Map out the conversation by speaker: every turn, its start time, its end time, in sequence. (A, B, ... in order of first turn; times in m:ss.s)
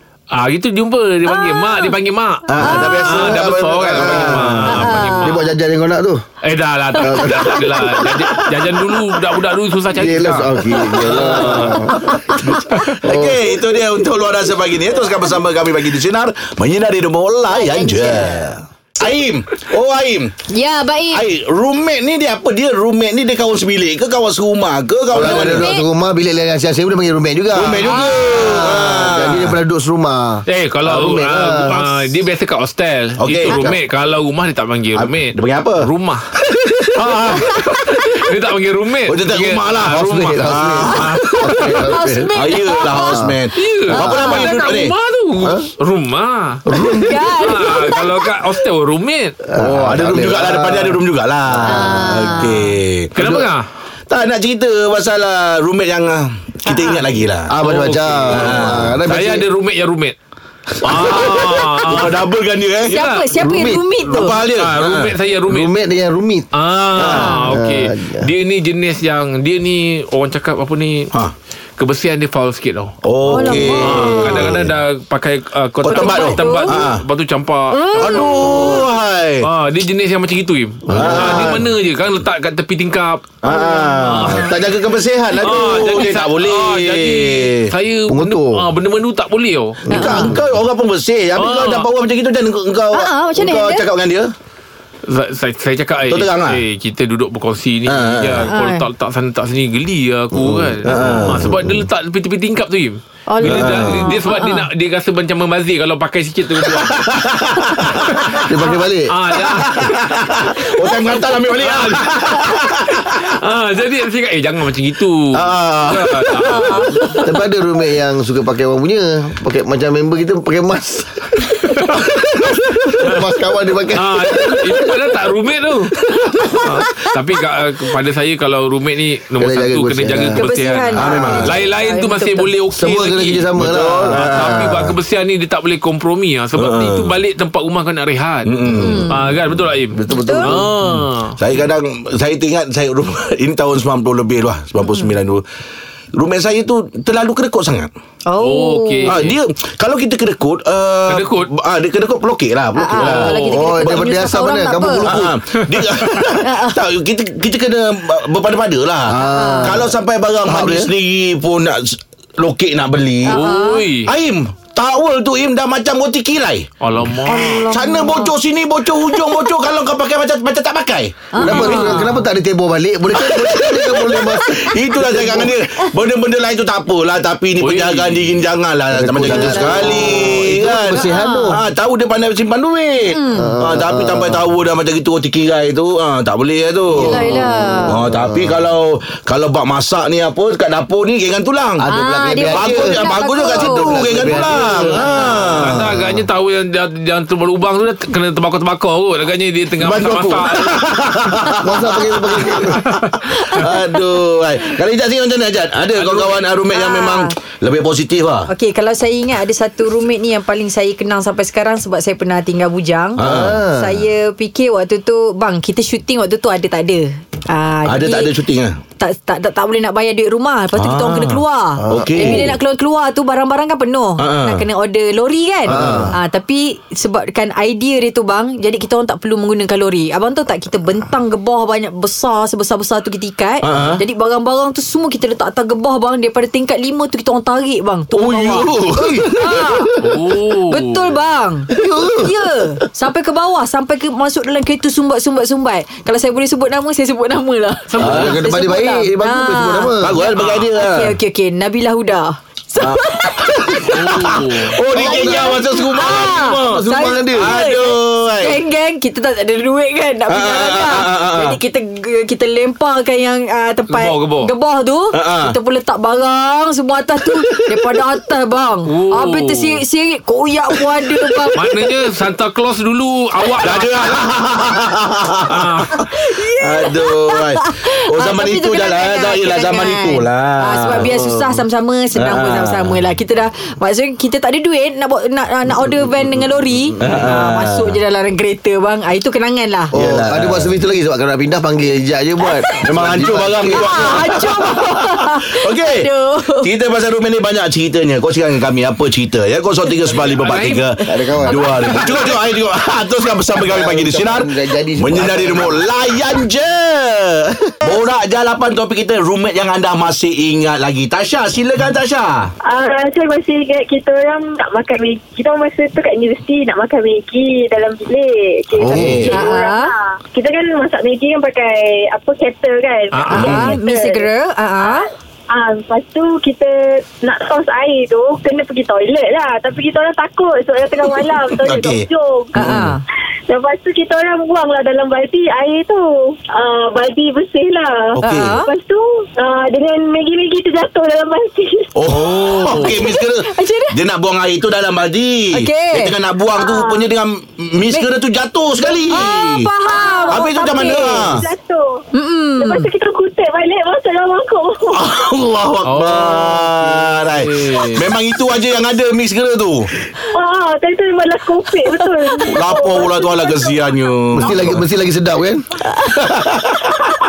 0:00.3-0:05.4 A
0:01.3-0:01.9 B
0:02.5-0:04.8 C
0:02.6-0:03.0 D
0:02.6-0:03.3 B
0:03.8-0:06.2 D
0:04.7-0:05.4 B
0:06.4-0:11.8 A
0:07.0-0:08.2 D
0:07.2-0:07.4 B
0:09.9-0:13.4 D
0:10.9-0:11.4 C
0:11.5-0:12.6 B
0:12.9-0:20.3 C
0:17.5-0:18.4 B
0:20.5-0:21.2 B
0:21.1-0:25.6 C
0:25.1-0:31.9 D
0:25.2-0:25.9 B
0:27.5-0:29.6 C
0:27.8-0:28.7 B
0:30.5-0:36.2 A
0:33.2-0:33.7 C
0:33.5-0:33.8 D
0:34.9-0:35.9 C
0:36.9-0:42.0 A
0:37.0-0:37.5 C
0:39.1-0:41.5 C
0:40.0-0:43.4 D
0:41.7-0:43.2 B
0:42.3-0:44.9 C
0:43.6-0:49.4 A
0:43.9-0:44.5 B
0:45.4-0:45.7 D
0:46.7-0:47.2 D
0:47.0-0:48.2 B
0:49.5-0:51.0 D
0:49.6-0:53.1 C
0:51.5-0:52.0 D
0:51.6-0:52.6 B
0:53.1-0:53.6 A
0:53.2-0:53.5 D
0:54.1-0:57.5 C
0:56.6-0:57.0 B
0:57.5-0:59.5 D
0:57.6-1:00.1 A
0:58.3-0:58.9 C
1:00.8-1:02.2 A
1:00.8-1:03.0 C
1:02.8-1:04.4 B
1:02.9-1:03.2 A
1:03.3-1:03.9 D
1:04.0-1:05.1 C
1:04.5-1:05.7 A
1:05.5-1:06.5 D
1:06.5-1:11.1 A
1:07.0-1:07.4 C
1:07.0-1:08.3 D
1:07.2-1:07.4 B
1:11.8-1:12.9 A
1:13.0-1:14.7 C
1:13.3-1:14.5 B
1:13.5-1:18.9 A
1:15.8-1:17.0 C
1:15.9-1:16.8 B
1:17.7-1:18.8 B
1:18.0-1:19.5 C
1:19.4-1:23.4 A
1:20.9-1:21.6 D
1:20.9-1:21.7 C
1:23.4-1:27.7 C
1:23.5-1:24.5 B
1:24.0-1:24.5 A
1:25.4-1:30.2 A
1:28.1-1:28.7 D
1:29.9-1:30.5 D
1:29.9-1:34.3 C
1:29.9-1:30.4 B
1:31.3-1:31.9 A
1:32.9-1:33.8 B
1:35.1-1:50.0 A
1:36.1-1:36.6 C
1:37.8-1:38.5 C
1:38.5-1:38.8 B
1:40.4-1:41.9 D
1:40.8-1:41.6 C
1:43.3-1:44.7 B
1:43.4-1:44.2 C
1:46.7-1:48.5 C
1:48.4-1:49.1 D
1:49.4-1:53.2 C
1:50.8-1:52.6 A
1:53.1-1:57.2 A
1:55.3-1:57.2 C
1:57.2-2:05.1 D
2:01.6-2:02.1 A
2:02.7-2:03.3 A
2:03.9-2:05.9 A
2:06.1-2:06.8 D
2:06.6-2:21.4 A
2:09.4-2:10.4 D
2:10.4-2:12.5 B
2:10.9-2:11.7 C
2:11.0-2:11.6 D
2:12.7-2:15.0 D
2:13.6-2:14.4 C
2:16.6-2:17.2 C
2:18.4-2:19.1 C
2:18.7-2:19.2 B
2:19.9-2:20.6 D
2:20.2-2:20.5 B
2:21.4-2:25.4 C
2:24.8-2:25.1 B
2:26.1-2:27.9 C
2:28.2-2:29.2 B
2:28.4-2:29.4 A
2:29.0-2:34.2 C
2:31.1-2:31.5 A
2:32.8-2:35.1 B
2:33.0-2:35.3 D
2:33.0-2:33.6 A
2:35.0-2:43.4 C
2:36.4-2:36.8 B
2:39.1-2:40.9 D
2:39.2-2:39.8 B
2:43.3-2:43.9 B
2:43.3-2:44.1 A
2:44.0-2:46.7 C
2:46.8-2:47.6 A
2:47.2-2:48.3 B
2:47.3-2:51.3 C
2:49.1-2:49.4 B
2:51.3-2:52.1 B
2:51.4-2:55.5 D
2:51.4-2:52.2 A
2:53.2-3:07.2 C
2:54.1-2:54.6 B
2:57.6-2:58.3 A
2:58.9-3:01.6 D
2:59.2-3:00.3 B
3:01.0-3:01.5 B
3:03.1-3:03.5 B
3:03.3-3:04.5 D
3:07.0-3:08.0 B
3:07.0-3:08.6 D
3:07.8-3:11.8 C
3:11.8-3:15.5 D
3:11.9-3:15.5 B
3:12.5-3:16.2 C
3:15.5-3:20.8 A
3:19.8-3:28.5 C
3:21.6-3:22.8 D
3:25.9-3:26.3 A
3:26.7-3:27.3 B
3:28.5-3:38.3 B
3:33.2-3:33.6 C
3:33.2-3:34.0 D
3:37.8-3:38.7 C
3:39.0-3:59.9 B
3:40.8-3:42.6 C
3:41.8-3:42.5 D
3:44.2-3:44.6 C
3:45.7-3:46.1 D
3:45.7-3:46.1 C
3:53.6-3:54.0 C
3:58.1-3:59.6 C
3:58.9-4:00.2 D
4:00.0-4:01.1 A
4:00.7-4:13.9 B
4:01.7-4:02.6 D
4:07.9-4:08.4 A
4:08.0-4:10.2 D
4:08.0-4:08.4 C
4:10.0-4:11.2 C
4:12.8-4:18.6 C
4:13.9-4:14.8 A
4:14.9-4:31.9 B
4:15.0-4:15.4 D
4:16.0-4:17.6 D
4:20.3-4:21.6 C
4:23.9-4:24.5 A
4:25.1-4:25.6 C
4:28.9-4:29.8 A
4:31.5-4:34.2 A
4:33.6-4:41.2 C
4:35.5-4:36.0 A
4:36.0-4:49.9 B
4:41.0-4:41.6 D
4:42.1-4:43.0 C
4:47.0-4:48.0 C
4:49.9-4:54.5 D
4:49.9-4:50.8 C
4:52.5-4:52.8 B
4:52.8-5:12.5 C
4:53.7-4:56.7 B
5:00.1-5:00.8 A
5:01.0-5:02.4 D
5:01.1-5:01.9 B
5:03.5-5:05.9 D
5:12.6-5:32.8 E
5:18.7-5:19.4 C
5:18.8-5:19.3 D
5:19.3-5:19.9 B
5:23.1-5:23.7 A
5:23.3-5:25.1 B
5:23.3-5:23.8 C
5:31.1-5:32.9 C
5:32.6-5:33.0 B
5:33.5-5:42.1 E
5:38.2-5:38.7 B
5:38.2-5:38.6 C
5:42.0-5:49.7 C
5:42.2-5:43.9 B
5:45.5-5:46.1 B
5:46.5-5:47.1 E
5:48.8-5:52.0 E
5:49.1-5:50.4 B
5:50.2-5:51.5 C
5:52.1-5:52.9 B
5:52.6-5:55.1 E
5:54.9-5:59.9 C
5:55.8-5:58.1 A
6:00.2-6:03.9 E
6:02.4-6:04.9 C
6:04.3-6:05.6 D
6:06.2-6:06.7 C